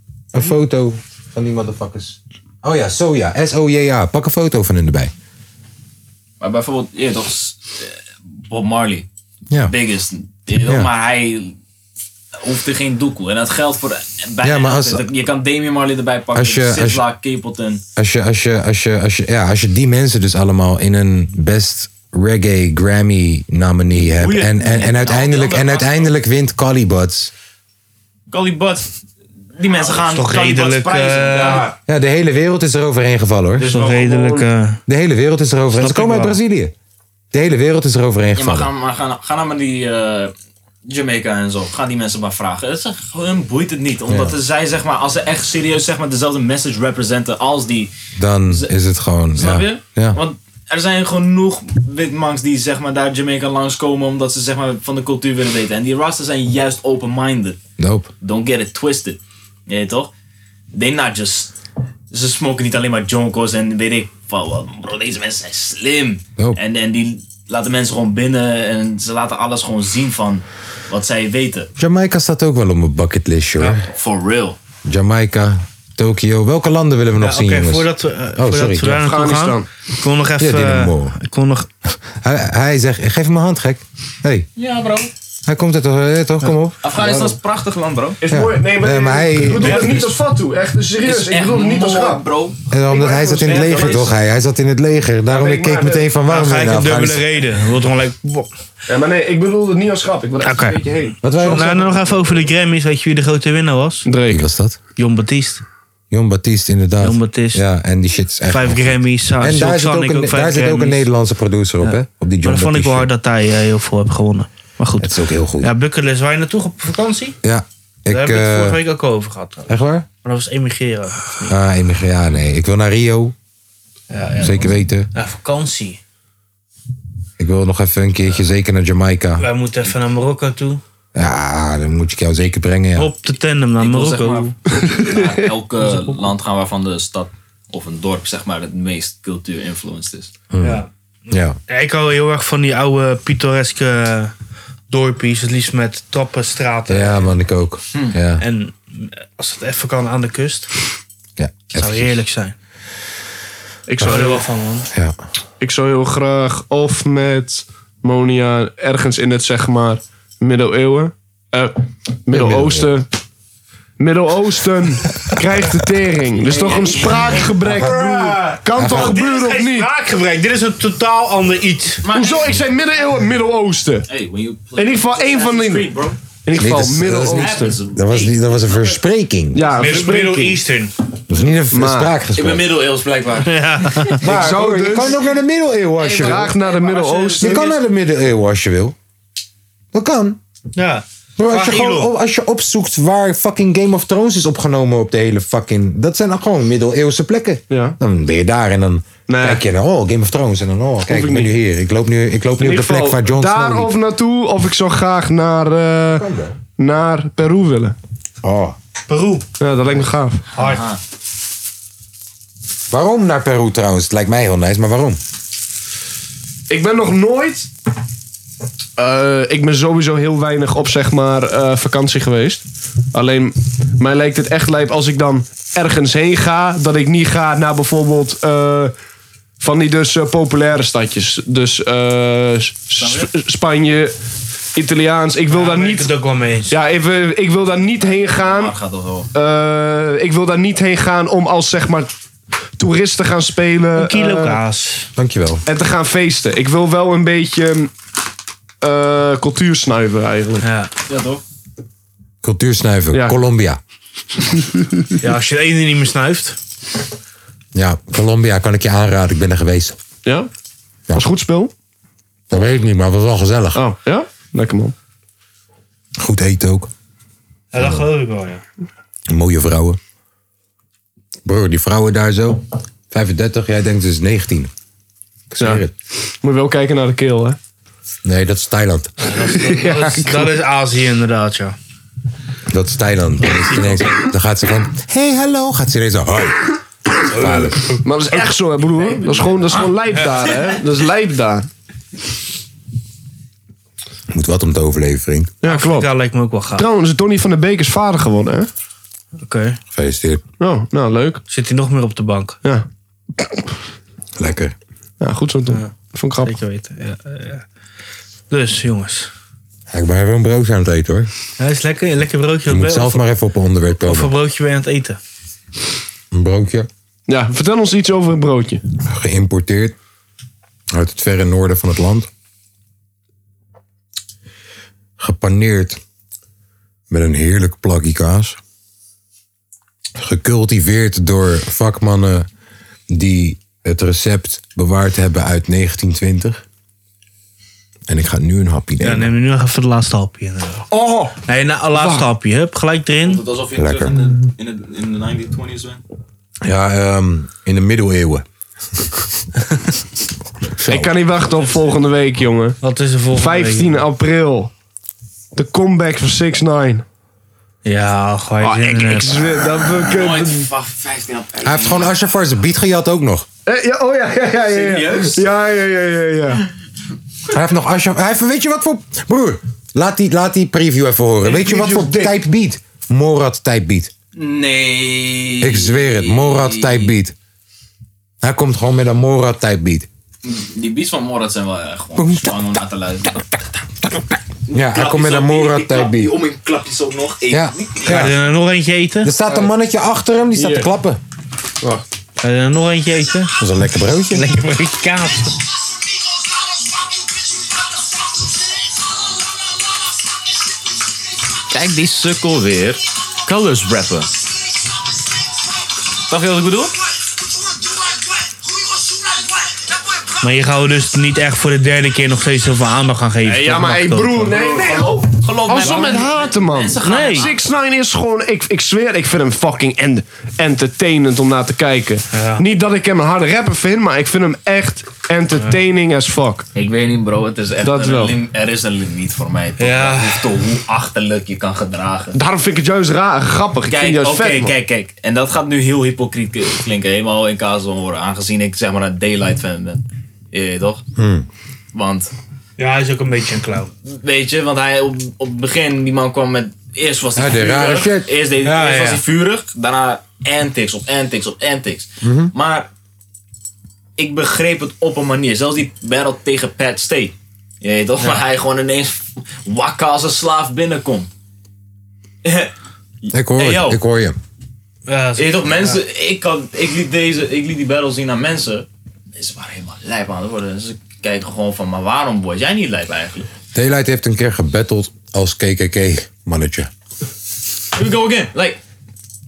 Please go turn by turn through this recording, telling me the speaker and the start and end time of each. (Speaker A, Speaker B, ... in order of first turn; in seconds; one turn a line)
Speaker A: 0.3-5.1
Speaker B: 6.4-9.1
Speaker A: 9.5-9.7
Speaker B: 9.7-11.5
Speaker A: 10.6-10.9
Speaker B: 12.4-17.8
Speaker A: 14.4-15.1
Speaker A: 16.3-17.1
Speaker A: 17.9-27.3
Speaker B: 24.2-26.1
Speaker B: 28.3-28.9
Speaker B: 29.6-31.7
Speaker C: 30.0-31.7
Speaker A: 31.9-33.7
Speaker D: 33.6-34.5
Speaker C: 33.6-34.8
Speaker A: 34.9-36.7
Speaker C: 35.8-36.4
Speaker A: 37.3-38.7
Speaker B: 38.4-40.3
Speaker B: 40.9-47.9
Speaker A: 44.1-44.4
Speaker A: 48.2-50.2
Speaker B: 49.4-57.6
Speaker A: 57.8-58.1
Speaker B: 58.2-60.1
Speaker B: 60.7-61.5
Speaker B: 62.1-71.7
Speaker A: 71.8-73.9
Speaker B: 73.9-74.6
Speaker A: 74.8-78.9
Speaker C: 77.2-81.7
Speaker D: 78.8-79.7
Speaker A: 80.4-81.1
Speaker A: 81.8-84.5
Speaker B: 84.6-85.1
Speaker A: 85.5-87.4
Speaker B: 86.8-88.2
Speaker D: 88.2-92.2
Speaker A: 88.3-90.0
Speaker B: 91.0-92.6
Speaker A: 92.7-97.2
Speaker D: 92.9-94.0
Speaker B: 93.4-94.1
Speaker D: 95.3-96.1
Speaker C: 96.3-98.5
Speaker D: 98.9-101.7
Speaker C: 100.4-104.1
Speaker A: 101.2-102.0
Speaker D: 104.0-104.4
Speaker A: 104.3-104.8
Speaker C: 105.0-105.6
Speaker A: 106.1-113.1
Speaker C: 107.0-107.6
Speaker C: 108.5-111.1
Speaker C: 111.8-117.4
Speaker A: 115.0-115.7
Speaker A: 117.4-118.8
Speaker C: 118.1-119.7
Speaker A: 119.7-120.1
Speaker C: 120.2-121.5
Speaker A: 121.4-123.3
Speaker C: 124.1-126.0
Speaker A: 124.4-125.1
Speaker A: 127.4-129.4
Speaker C: 129.4-130.8
Speaker A: 131.1-133.1
Speaker C: 132.9-134.5
Speaker B: 133.8-140.3
Speaker D: 134.8-135.4
Speaker C: 135.8-136.2
Speaker A: 140.5-141.6
Speaker C: 140.6-140.9
Speaker C: 141.7-144.3
Speaker C: 144.9-147.3
Speaker A: 146.9-148.4
Speaker C: 148.4-150.7
Speaker A: 151.4-152.2
Speaker C: 151.7-152.6
Speaker D: 153.9-154.4
Speaker A: 154.0-154.2
Speaker C: 154.0-154.9
Speaker A: 154.9-155.2
Speaker D: 155.6-161.7
Speaker D: 162.2-163.1
Speaker A: 162.3-162.9
Speaker D: 164.0-169.9
Speaker B: 166.4-167.5
Speaker C: 167.7-172.0
Speaker A: 168.7-169.2
Speaker B: 172.0-172.7
Speaker D: 172.1-174.1
Speaker B: 174.1-176.2
Speaker D: 174.8-175.9
Speaker D: 176.4-177.8
Speaker A: 176.5-179.7
Speaker B: 177.3-178.9
Speaker D: 179.5-180.6
Speaker C: 179.7-180.9
Speaker A: 181.3-182.8
Speaker D: 181.7-182.1
Speaker B: 182.3-184.2
Speaker C: 183.4-184.2
Speaker A: 184.2-186.5
Speaker D: 184.2-185.2
Speaker B: 186.0-187.8
Speaker D: 186.2-187.8
Speaker A: 187.4-188.9
Speaker A: 189.9-190.4
Speaker C: 190.8-192.1
Speaker A: 191.4-203.9
Speaker D: 197.7-197.9
Speaker D: 199.3-199.6
Speaker D: 201.1-201.5
Speaker D: 202.6-206.3
Speaker A: 206.2-206.6
Speaker D: 206.8-207.9
Speaker A: 208.4-208.8
Speaker C: 209.1-209.4
Speaker D: 209.6-210.4
Speaker C: 210.5-210.8
Speaker B: 210.6-211.0
Speaker A: 212.9-215.2
Speaker D: 216.7-217.7
Speaker D: 219.0-228.9
Speaker D: 229.6-234.1
Speaker B: 232.9-233.3
Speaker D: 234.8-236.1
Speaker C: 235.5-236.8
Speaker D: 236.7-238.7
Speaker B: 238.0-239.3
Speaker D: 239.3-242.1
Speaker D: 242.8-244.6
Speaker C: 243.9-245.1
Speaker A: 245.2-245.6
Speaker D: 245.7-247.9
Speaker D: 248.8-250.6
Speaker C: 250.6-250.9
Speaker B: 251.1-251.4
Speaker A: 252.4-253.8
Speaker D: 253.1-253.4
Speaker C: 255.2-256.6
Speaker A: 257.7-260.0
Speaker D: 261.1-261.7
Speaker A: 262.5-263.8
Speaker D: 263.7-264.9
Speaker A: 266.2-266.9
Speaker C: 267.7-268.6
Speaker A: 267.7-268.0
Speaker A: 269.3-270.0
Speaker A: 271.4-274.7
Speaker A: 275.5-275.9
Speaker D: 276.4-277.6
Speaker A: 278.2-279.1
Speaker C: 279.2-281.8
Speaker D: 279.6-280.5
Speaker A: 282.7-287.9
Speaker C: 283.7-284.2
Speaker D: 288.0-291.7
Speaker B: 289.1-289.9
Speaker A: 294.3-295.5
Speaker D: 295.6-296.1
Speaker C: 295.6-296.9
Speaker D: 296.8-298.7
Speaker C: 299.4-299.8
Speaker A: 299.9-300.4
Speaker D: 300.6-301.4
Speaker C: 301.5-302.6
Speaker A: 304.4-304.7
Speaker D: 305.2-306.5
Speaker C: 306.4-307.6
Speaker C: 308.5-309.3
Speaker A: 309.9-311.3
Speaker C: 311.6-313.2
Speaker A: 312.7-314.3
Speaker C: 314.0-315.2
Speaker A: 316.3-316.9
Speaker D: 317.3-318.8
Speaker A: 319.1-319.9
Speaker A: 320.9-322.3
Speaker A: 325.2-326.0
Speaker A: 327.1-328.6
Speaker A: 330.1-332.5
Speaker A: 333.1-336.6
Speaker A: 338.1-339.3
Speaker C: 339.0-340.8
Speaker D: 340.9-341.3
Speaker C: 341.4-343.4
Speaker D: 341.9-342.2
Speaker B: 343.2-346.0
Speaker A: 343.8-344.4
Speaker A: 346.6-348.4
Speaker A: 350.8-351.1
Speaker D: 350.9-352.8
Speaker C: 352.8-354.0
Speaker D: 353.3-354.7
Speaker D: 355.5-357.0
Speaker C: 357.8-359.4
Speaker D: 358.6-360.7
Speaker B: 360.0-362.1
Speaker A: 361.6-363.5
Speaker D: 363.6-366.6
Speaker B: 364.7-365.4
Speaker A: 367.5-374.1
Speaker B: 371.6-372.3
Speaker B: 374.3-377.1
Speaker A: 375.6-377.3
Speaker A: 378.4-380.1
Speaker B: 380.4-383.6
Speaker A: 382.1-382.8
Speaker B: 384.7-388.3
Speaker A: 384.7-386.3
Speaker A: 387.5-388.4
Speaker C: 388.0-389.3
Speaker A: 389.2-391.2
Speaker D: 390.5-390.9
Speaker C: 392.4-393.5
Speaker A: 393.6-394.5
Speaker C: 394.3-395.5
Speaker B: 401.7-404.3
Speaker B: 406.3-406.9
Speaker C: 410.4-414.6
Speaker D: 413.4-426.7
Speaker B: 414.5-417.6
Speaker C: 417.0-417.5
Speaker C: 422.3-422.6
Speaker B: 426.7-432.4
Speaker D: 427.8-428.4
Speaker C: 429.8-430.5
Speaker D: 432.3-434.7
Speaker B: 433.9-441.0
Speaker A: 441.2-441.5
Speaker B: 441.9-442.3
Speaker C: 442.8-443.9
Speaker B: 444.1-452.9
Speaker A: 447.3-448.3
Speaker C: 448.6-449.2
Speaker A: 452.2-452.5
Speaker B: 454.2-461.3
Speaker B: 462.4-462.7
Speaker B: 463.2-464.0
Speaker A: 463.3-464.4
Speaker C: 465.1-466.0
Speaker B: 465.4-473.5
Speaker A: 473.7-476.9
Speaker B: 477.9-478.8